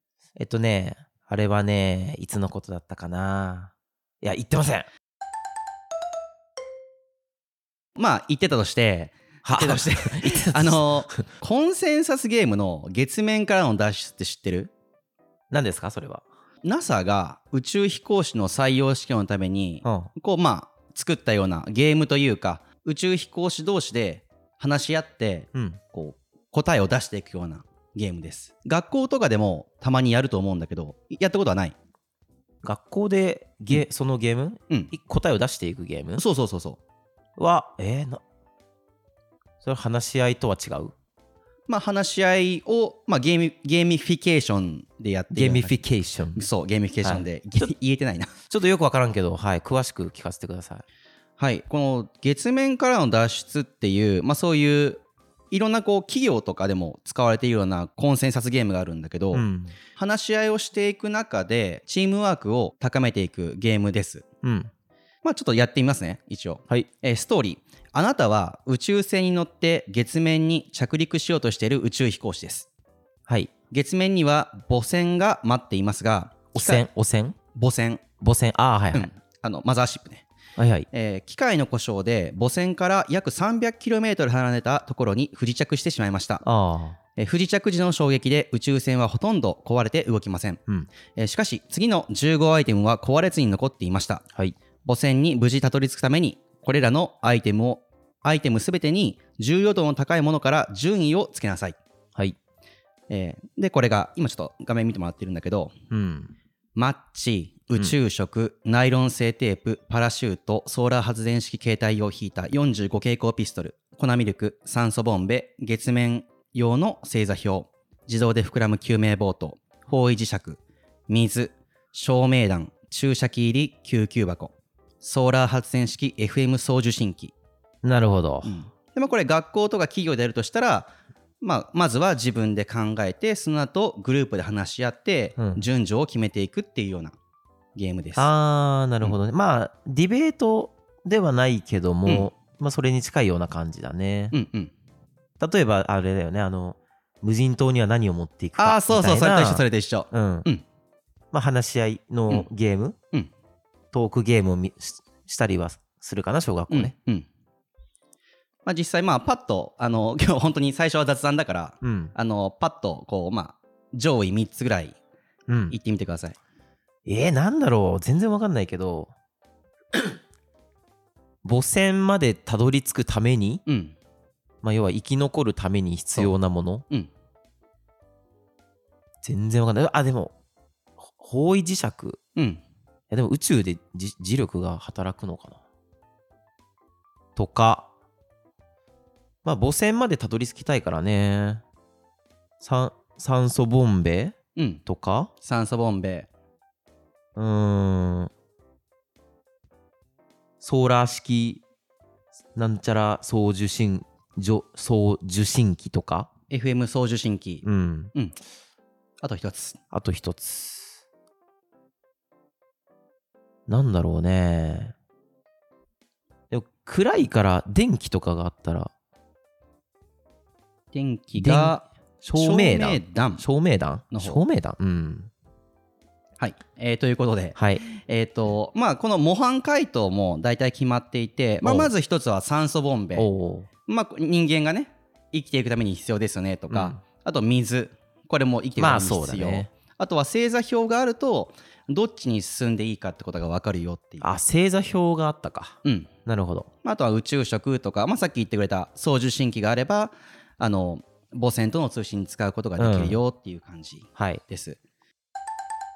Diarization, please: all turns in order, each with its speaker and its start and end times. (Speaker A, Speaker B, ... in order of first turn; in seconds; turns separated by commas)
Speaker A: 0.4-4.9, Speaker B: 8.0-14.7, Speaker A: 9.4-11.1, Speaker A: 15.5-16.2, Speaker B: 16.6-31.8, Speaker A: 19.8-20.1, Speaker A: 25.5-25.8, Speaker A: 32.6-36.2, Speaker B: 36.2-36.8, Speaker A: 37.4-38.2, Speaker A: 39.6-40.9, Speaker B: 41.7-45.8, Speaker A: 45.3-46.5, Speaker B: 46.4-48.3, Speaker A: 48.5-50.8, Speaker B: 51.4-64.2, Speaker A: 59.3-59.8, Speaker A: 64.4-64.7, Speaker B: 65.2-72.7, Speaker B: 73.7-76.9, Speaker A: 76.5-77.4, Speaker B: 77.5-78.0, Speaker A: 78.2-79.1, Speaker B: 78.9-80.3, Speaker A: 80.6-80.9, Speaker B: 80.9-86.4, Speaker A: 86.4-87.0, Speaker B: 87.2-90.6, Speaker B: 91.2-94.2, Speaker B: 94.8-101.8, Speaker B: 103.1-105.7, Speaker A: 105.9-106.3, Speaker B: 106.8-127.3, Speaker A: 127.8-128.6, Speaker B: 128.4-137.2, Speaker A: 135.4-135.7, Speaker B: 137.8-138.3, Speaker A: 138.2-144.3, Speaker B: 142.1-142.3, Speaker B: 144.3-144.7, Speaker A: 145.4-150.5, Speaker B: 148.6-150.6, Speaker A: 151.3-153.0, Speaker A: 153.9-156.9, Speaker B: 156.7-157.3, Speaker B: 158.7-165.0, Speaker A: 161.8-162.1, Speaker A: 165.5-165.8, Speaker B: 165.7-166.4, Speaker A: 167.1-169.1, Speaker A: 171.4-173.6, Speaker B: 173.7-174.0, Speaker A: 174.6-176.8, Speaker A: 179.2-180.3, Speaker A: 181.1-182.2, Speaker B: 182.4-182.6, Speaker A: 183.1-185.6, Speaker A: 187.4-187.9, Speaker A: 189.4-191.6, Speaker A: 192.6-195.3, Speaker B: 194.6-194.8, Speaker B: 195.4-196.3, Speaker A: 197.4-198.3, Speaker A: 200.6-201.6, Speaker A: 202.6-206.3, Speaker B: 206.5-208.4, Speaker A: 207.6-208.1, Speaker B: 209.2-209.8, Speaker A: 209.9-211.0, Speaker A: 213.7-214.9, Speaker A: 216.5-218.9, Speaker B: 220.9-223.4, Speaker A: 221.3-225.3, Speaker B: 224.1-224.4, Speaker B: 226.4-233.3, Speaker A: 227.6-227.8, Speaker A: 231.6-231.9, Speaker A: 233.2-233.7, Speaker B: 233.9-244.4, Speaker A: 236.7-237.0, Speaker A: 238.8-239.7, Speaker A: 244.2-246.7, Speaker B: 245.8-246.1, Speaker B: 246.8-254.8, Speaker A: 252.8-253.2, Speaker A: 254.2-254.4